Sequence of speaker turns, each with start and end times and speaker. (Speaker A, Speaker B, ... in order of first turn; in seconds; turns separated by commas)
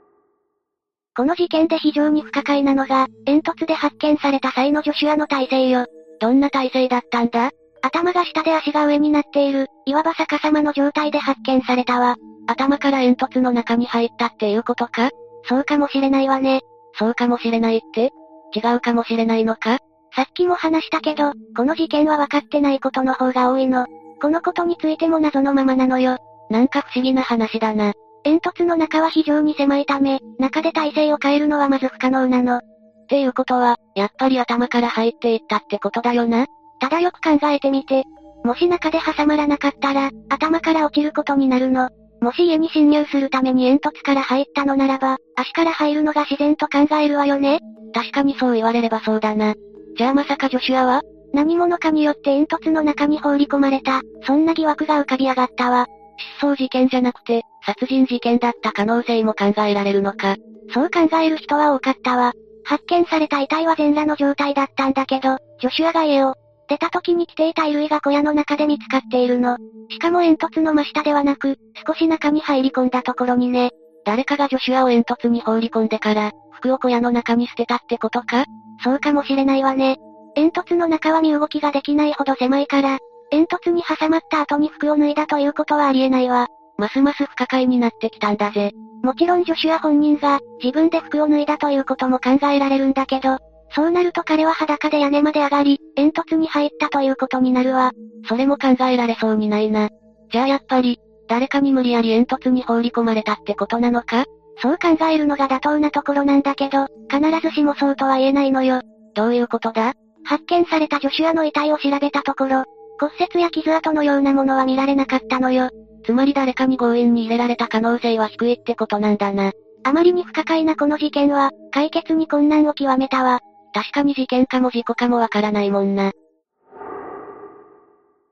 Speaker A: 1.1-126.1